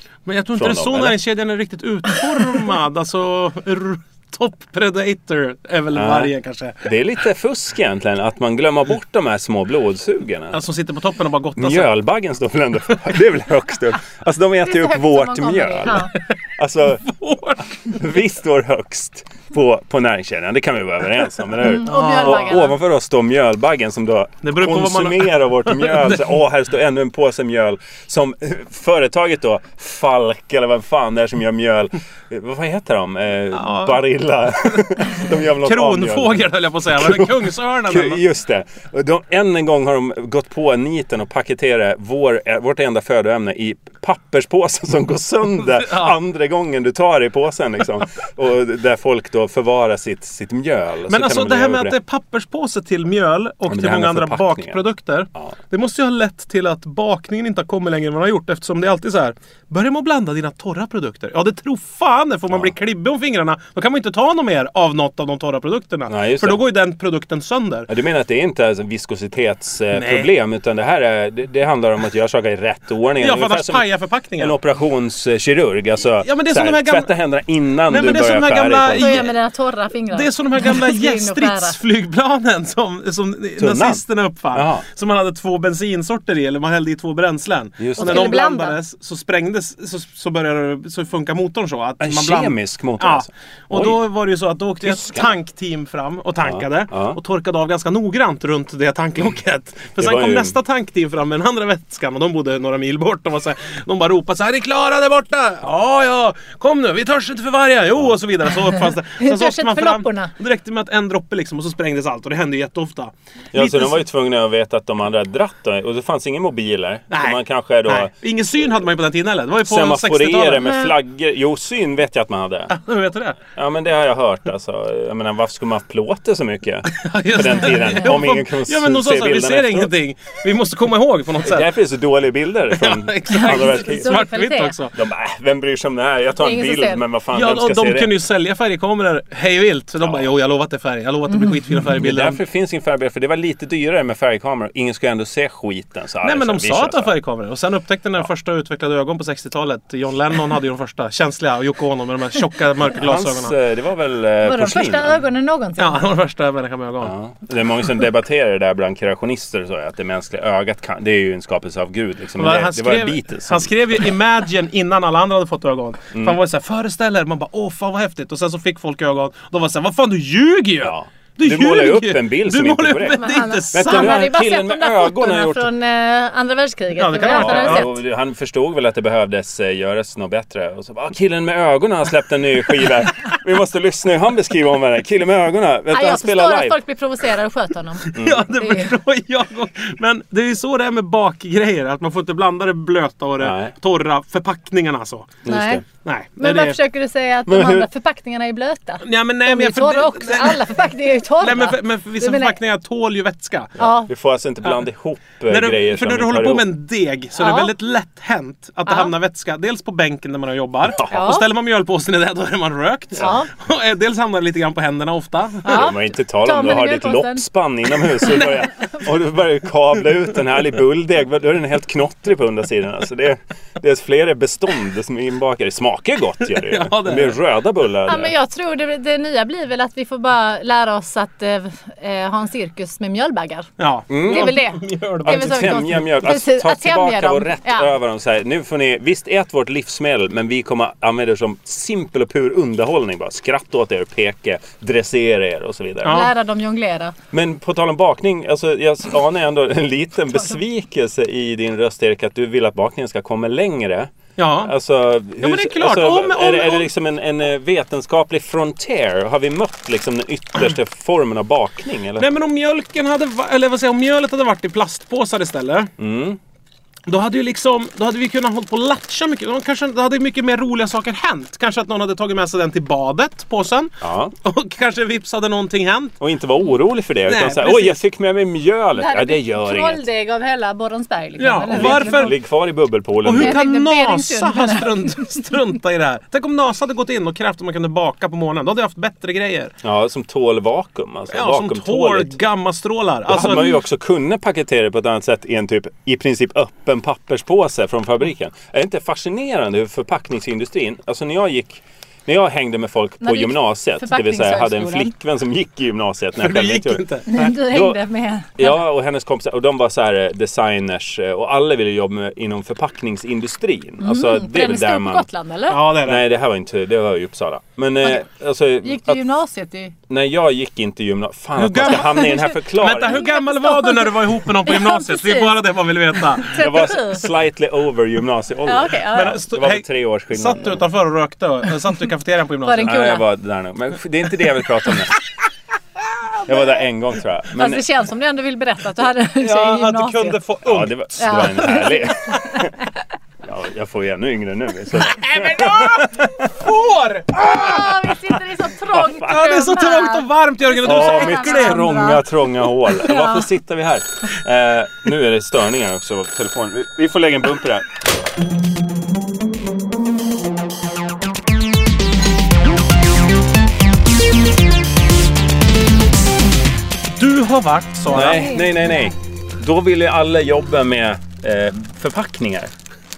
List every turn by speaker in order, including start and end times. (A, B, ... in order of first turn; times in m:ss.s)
0:00.2-0:06.9 A
0:00.6-0:01.2 B
0:05.9-0:10.6 B
0:10.5-0:11.9 A
0:11.6-0:17.0 B
0:14.6-0:16.1 C
0:17.0-0:17.9 A
0:17.8-0:52.0 B
0:21.6-0:22.8 C
0:21.8-0:22.6 A
0:24.4-0:26.3 A
0:33.5-0:34.0 A
0:35.6-0:38.2 A
0:45.8-0:46.1 A
0:51.1-1:07.9 A
0:53.7-0:54.8 B
1:06.1-1:06.6 B
1:07.9-1:13.9 B
1:09.9-1:10.3 A
1:13.2-1:14.5 A
1:14.4-1:19.3 B
1:16.2-1:17.1 A
1:17.9-1:19.3 A
1:18.9-1:21.8 C
1:20.1-1:54.0 A
1:23.6-1:24.8 B
1:27.8-1:28.3 B
1:28.0-1:28.8 C
1:32.0-1:34.0 B
1:34.8-1:35.3 B
1:36.4-1:37.2 B
1:40.0-1:40.6 B
1:49.2-1:50.3 C
1:53.5-1:58.1 B
1:57.1-2:00.8 A
1:59.6-2:02.7 B
2:02.7-2:03.4 A
2:03.5-2:09.9 B
2:06.9-2:11.7 A
2:11.4-2:14.2 B
2:12.7-2:14.9 A
2:13.4-2:14.8 C
2:14.9-2:18.2 B
2:16.4-2:17.0 C
2:17.3-2:22.4 A
2:20.0-2:20.3 B
2:21.9-2:27.1 B
2:26.2-2:33.5 A
2:33.0-2:35.2 B
2:34.4-2:36.0 C
2:35.8-2:37.1 A
2:37.0-2:44.1 B
2:42.4-2:54.3 A
2:50.8-2:55.7 B
2:53.2-2:57.9 C
2:57.0-2:57.9 A
2:57.2-3:06.8 B
3:05.9-3:08.9 C
3:08.0-3:15.4 A
3:08.2-3:08.4 B
3:13.4-3:13.7 B
3:15.4-3:15.8 B
3:15.4-3:15.8 C
3:16.0-3:16.8 A
3:16.4-3:22.5 C
3:17.4-3:17.9 B
3:19.0-3:20.8 A
3:21.4-3:23.8 A
3:23.8-3:24.1 C
3:23.8-3:26.7 B
3:25.5-3:35.9 A
3:27.4-3:27.7 C
3:28.9-3:29.1 C
3:31.1-3:31.5 C
3:33.2-3:33.5 C
3:35.6-3:37.4 C
3:35.7-3:48.3 B
3:46.5-3:47.4 A
3:48.0-3:57.9 C
3:53.8-3:56.0 A
3:54.1-3:54.6 B
3:55.2-4:06.3 B
4:06.0-4:06.3 A
4:06.1-4:07.1 C
4:07.3-4:22.3 B
4:14.4-4:14.7 A
4:15.4-4:16.9 A
4:22.2-4:25.9 A
4:26.0-4:26.4 B
4:27.1-4:36.2 A
4:34.0-4:34.3 B
4:36.2-4:40.0 B
4:37.3-4:38.0 A
4:39.0-4:42.3 C
4:41.4-4:42.3 A
4:41.7-4:43.6 B
4:43.2-4:49.7 A
4:43.3-4:45.4 C
4:49.8-4:52.4 B
4:51.3-4:53.7 A
4:53.3-5:08.0 B
5:03.2-5:05.1 C
5:06.4-5:07.5 A
5:07.3-5:08.8 C
5:08.6-5:15.3 B
5:14.0-5:15.8 C
5:15.7-5:16.2 A
5:16.0-5:19.2 B
5:18.8-5:19.9 C
5:20.1-5:23.2 B
5:21.6-5:26.6 A
5:22.0-5:22.5 C
5:23.0-5:25.5 C
5:26.4-5:27.3 C
5:26.6-5:30.8 B
5:28.6-5:29.4 C
5:29.1-5:33.0 A
5:32.6-5:33.2 C
5:32.8-5:35.2 B
5:36.4-5:37.8 B
5:37.5-5:40.4 C
5:39.4-5:41.5 A
5:40.6-5:42.7 B
5:41.2-5:42.6 C
5:43.4-5:46.5 B
5:45.0-5:47.9 A
5:47.4-5:52.3 C
5:47.6-5:48.2 B
5:48.9-5:49.3 B
5:49.2-5:51.8 A
5:50.8-5:57.9 B
5:52.8-5:53.5 C
6:07.1-6:08.5 A
6:08.1-6:12.7 B
6:08.2-6:09.0 C